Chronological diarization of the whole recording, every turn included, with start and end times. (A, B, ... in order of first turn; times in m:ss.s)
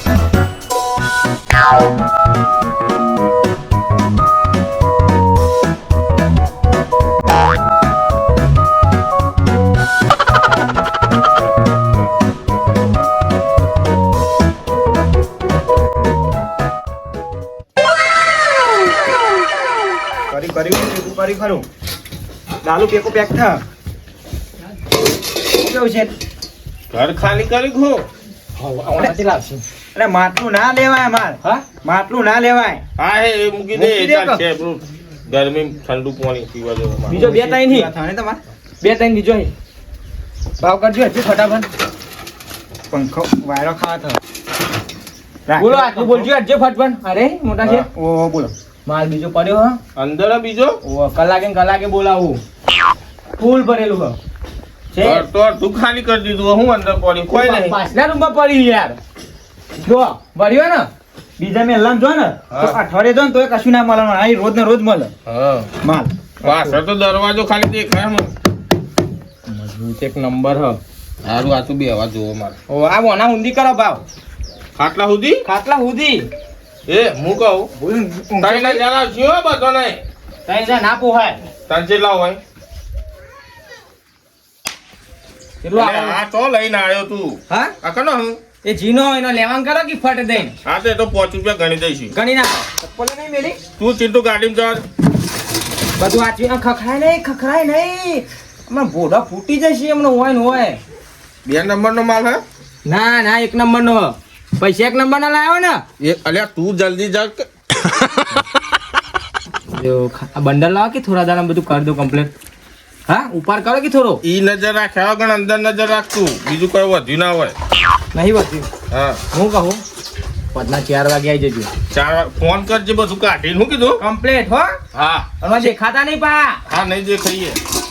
0:20.3-0:21.6 A
0:22.6-0:23.6 A
0:25.6-0:26.1 A
0:26.9-0:28.0 B
0:28.6-0:29.6 C
0:29.9-0:32.8 A
0:33.0-0:37.4 B
0:33.7-0:34.4 C
0:37.1-0:37.9 C
0:37.1-0:38.4 A
0:38.8-0:39.5 C
0:40.6-0:41.7 C
0:42.9-0:44.2 A
0:45.5-0:46.3 A
0:45.6-0:47.9 C
0:47.8-0:48.5 A
0:48.8-0:49.8 C
0:50.0-0:50.8 B
0:50.8-0:52.4 C
0:53.4-0:54.2 C
0:54.9-0:55.3 C
0:55.0-0:57.8 B
0:57.3-0:59.0 C
0:59.8-1:00.9 C
1:01.4-1:05.1 A
1:02.5-1:02.8 B
1:05.3-1:05.7 B
1:05.8-1:06.1 A
1:06.4-1:08.3 B
1:06.5-1:06.8 C
1:09.4-1:10.8 C
1:11.2-1:12.6 B
1:12.7-1:14.0 C
1:14.8-1:15.4 B
1:15.4-1:16.3 C
1:16.9-1:17.7 B
1:17.8-1:18.8 A
1:17.9-1:18.8 C
1:18.4-1:20.0 B
1:20.4-1:21.4 C
1:21.7-1:22.4 B
1:25.6-1:26.2 C
1:25.7-1:28.4 B
1:27.5-1:27.7 C
1:28.6-1:30.6 C
1:30.6-1:32.1 B
1:32.1-1:33.6 C
1:33.8-1:34.8 B
1:36.0-1:40.8 C
1:41.4-1:42.4 B
1:42.8-1:45.8 C
1:46.0-1:48.2 B
1:49.7-1:52.3 C
1:53.1-1:54.2 C
1:54.2-1:57.5 B
1:58.1-1:58.7 C
1:58.9-1:59.2 B
1:59.3-1:59.8 C
2:00.5-2:01.7 C
2:01.9-2:04.0 B
2:04.0-2:04.8 C
2:04.9-2:05.3 B
2:05.4-2:06.6 C
2:06.7-2:07.6 B